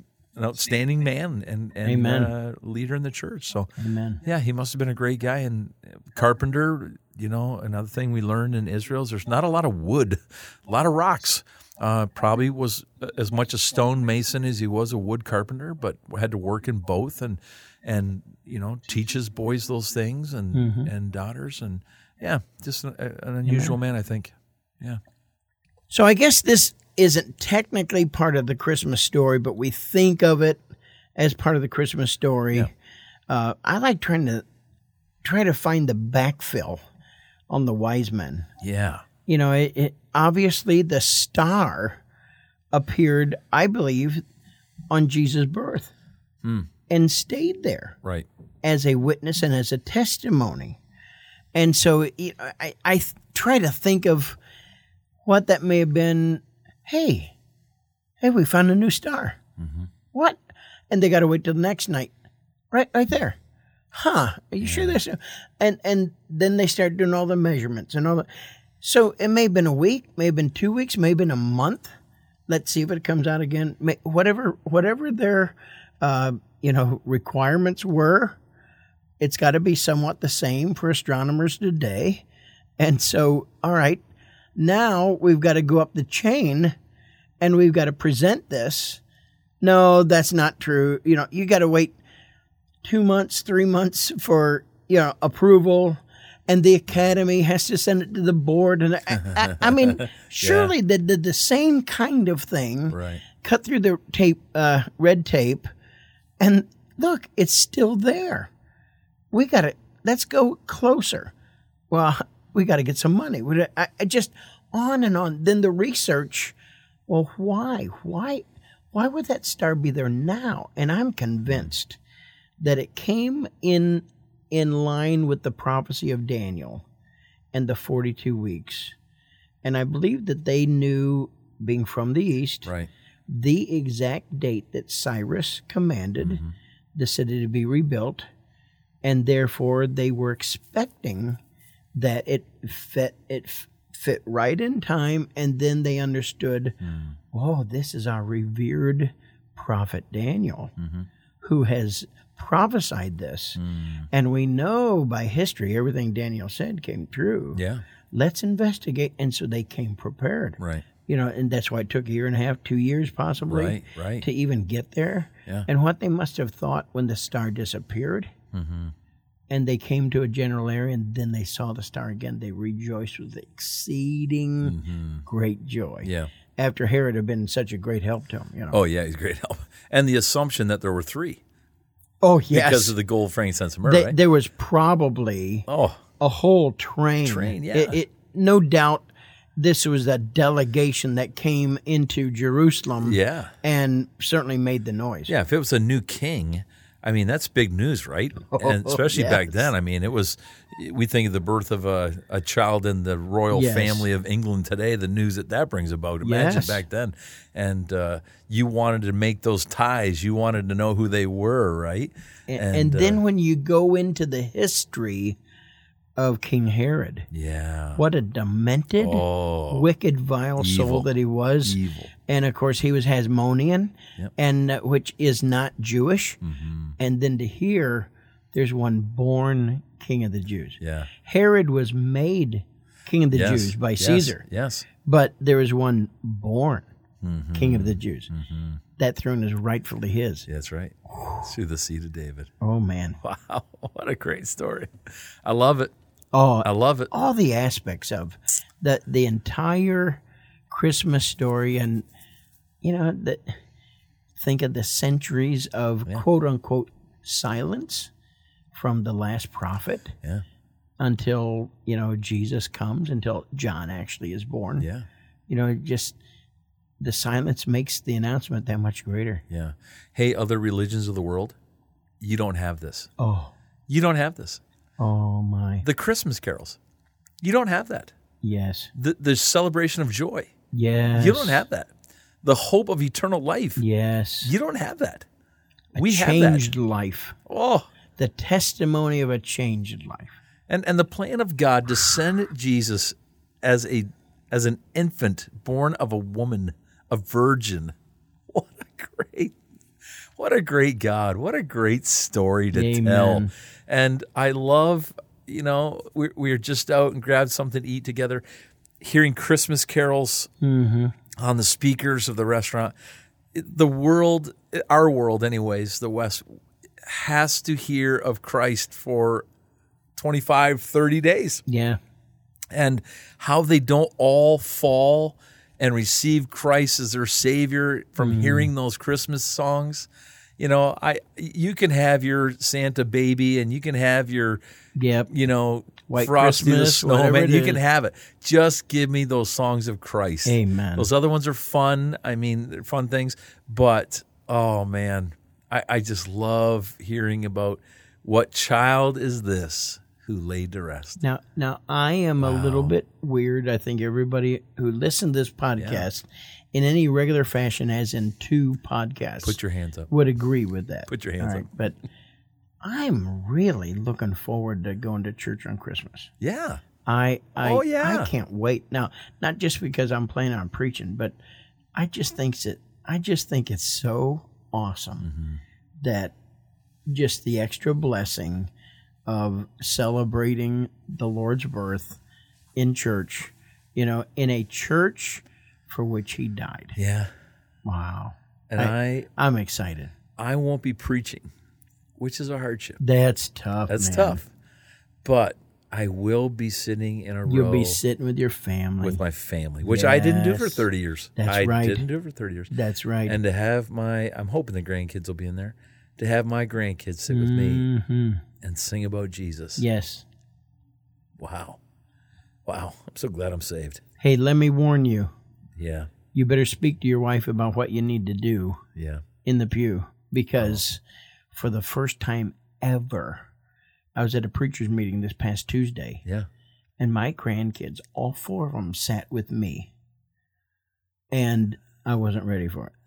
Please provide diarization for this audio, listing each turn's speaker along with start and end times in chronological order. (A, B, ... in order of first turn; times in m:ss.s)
0:00.3-0:03.7 A
0:01.8-0:02.3 B
0:03.8-0:04.2 B
0:04.2-0:25.0 A
0:20.5-0:20.9 B
0:23.4-0:23.8 B
0:25.9-0:30.6 B
0:31.2-0:32.7 B
0:33.3-0:34.4 B
0:35.2-0:36.8 B
0:37.5-0:38.5 B
0:38.6-0:39.0 A
0:39.2-0:42.0 B
0:42.7-0:44.2 B
0:44.9-0:45.9 B
0:46.9-0:48.0 B
0:48.6-0:50.8 B
0:51.5-0:54.4 B
0:55.2-0:57.3 B
0:58.2-0:59.4 B
0:59.6-0:59.9 A
1:00.1-1:02.1 B
1:02.7-1:03.4 B
1:03.9-1:08.2 B
1:04.6-1:05.0 A
1:08.8-1:11.9 B
1:12.5-1:18.4 B
1:19.2-1:22.2 B
1:22.8-1:24.0 B
1:24.6-1:26.7 B
1:27.4-1:29.0 B
1:29.6-1:32.0 B
1:32.8-1:45.7 B
1:39.2-1:40.7 A
1:42.9-1:43.2 A
1:46.4-1:48.5 B
1:49.3-1:51.3 B
1:51.9-1:56.5 B
1:57.1-2:02.0 B
2:02.6-2:06.8 B
2:07.5-2:08.9 B
2:09.6-2:12.7 B
2:12.6-2:12.9 A
2:13.3-2:16.4 B
2:16.2-2:16.5 A
2:16.9-2:18.2 B
2:19.0-2:21.4 B
2:21.9-2:26.8 B
2:26.8-2:27.1 A
2:27.3-2:30.7 B
2:30.8-2:31.0 A
2:31.4-2:33.6 B
2:33.6-2:34.1 A
2:34.1-2:48.3 B
2:37.5-2:37.8 A
2:40.6-2:40.8 A
2:43.5-2:44.2 A
2:48.5-2:48.9 A
2:49.5-2:58.8 B
2:54.6-2:55.2 A
2:56.0-2:56.3 A
2:58.7-3:01.4 A
3:02.2-3:02.9 B
3:02.5-3:04.2 A
3:03.8-3:05.7 B
3:05.7-3:06.0 A
3:06.2-3:15.3 B
3:07.2-3:08.0 A
3:13.0-3:13.5 A
3:15.3-3:33.2 A
3:18.5-3:19.7 B
3:23.5-3:24.1 B
3:26.2-3:26.8 B
3:32.5-3:35.4 B
3:36.2-3:37.3 B
3:37.3-3:38.0 A
3:38.0-3:46.4 B
3:39.0-3:39.9 A
3:40.6-3:41.1 A
3:41.6-3:42.1 A
3:46.4-3:47.0 A
3:47.0-3:54.4 B
3:50.8-3:51.1 A
3:53.3-3:54.9 A
3:55.0-3:56.9 B
3:57.2-3:58.8 A
3:57.5-3:58.3 B
3:59.0-4:00.5 B
4:00.5-4:02.5 A
4:01.1-4:01.4 B
4:02.6-4:03.2 B
4:03.2-4:05.9 A
4:06.3-4:12.0 B
4:06.6-4:07.1 A
4:12.8-4:13.6 B
4:14.4-4:18.1 B
4:18.7-4:20.1 B
4:21.0-4:24.9 B
4:24.8-4:25.0 A
4:25.5-4:26.2 B
4:27.0-4:29.4 B
4:29.5-4:31.6 A
4:32.2-4:33.1 A
4:33.2-4:33.5 B
4:33.9-4:34.6 A
4:35.0-4:35.8 B
4:35.8-4:36.8 A
4:37.4-4:38.1 A
4:38.4-4:38.9 B
4:38.9-4:40.5 A
4:40.7-4:41.6 B
4:41.1-4:41.9 A
4:42.4-4:43.8 A
4:43.8-4:44.5 B
4:44.4-4:45.2 A
4:45.9-4:46.7 A
4:45.9-4:47.4 B
4:47.5-4:47.9 A
4:48.2-4:50.4 B
4:50.7-4:57.9 A
4:58.5-4:59.6 A
5:00.4-5:08.4 A
5:02.7-5:03.5 B
5:09.0-5:10.5 A
5:10.6-5:11.1 B
5:11.3-5:12.9 A
5:13.5-5:16.5 A
5:17.0-5:19.4 A
5:20.2-5:21.6 A
5:21.6-5:22.0 B
5:22.7-5:34.6 A
5:28.2-5:28.7 B
5:35.0-5:35.3 B
5:35.3-5:51.2 A
5:36.1-5:37.8 B
5:40.4-5:41.1 B
5:51.2-5:59.6 B
5:52.4-5:52.9 A
5:55.8-5:56.0 A
5:59.4-6:00.1 A
6:00.1-6:02.0 B
6:01.1-6:01.7 A
6:02.8-6:06.3 B
6:06.4-6:06.8 A
6:07.0-6:11.4 B
6:07.6-6:08.3 A
6:12.0-6:15.3 B
6:15.2-6:15.6 A
6:16.0-6:16.3 B
6:17.1-6:18.7 B
6:19.2-6:22.2 B
6:22.8-6:27.0 B
6:27.0-6:27.3 A
6:27.8-6:30.1 B
6:28.7-6:29.3 A
6:30.4-6:31.5 A
6:32.2-6:33.0 A
6:33.0-6:34.4 B
6:33.9-6:34.5 A
6:35.2-6:38.0 A
6:37.4-6:39.2 B
6:39.0-6:42.7 A
6:39.8-6:40.8 B
6:41.4-6:42.0 B
6:42.7-6:43.4 B
6:43.2-6:47.8 A
6:47.3-6:48.4 B
6:48.6-6:49.8 A
6:49.8-6:50.2 B
6:51.4-6:51.8 A
6:52.6-6:54.0 A
6:54.2-6:55.3 B
6:55.8-6:56.1 A
6:56.3-6:58.8 B
6:58.9-6:59.2 A
6:59.4-7:01.0 B
7:01.5-7:03.4 B
7:04.1-7:06.2 B
7:07.0-7:09.9 B
7:11.3-7:12.9 B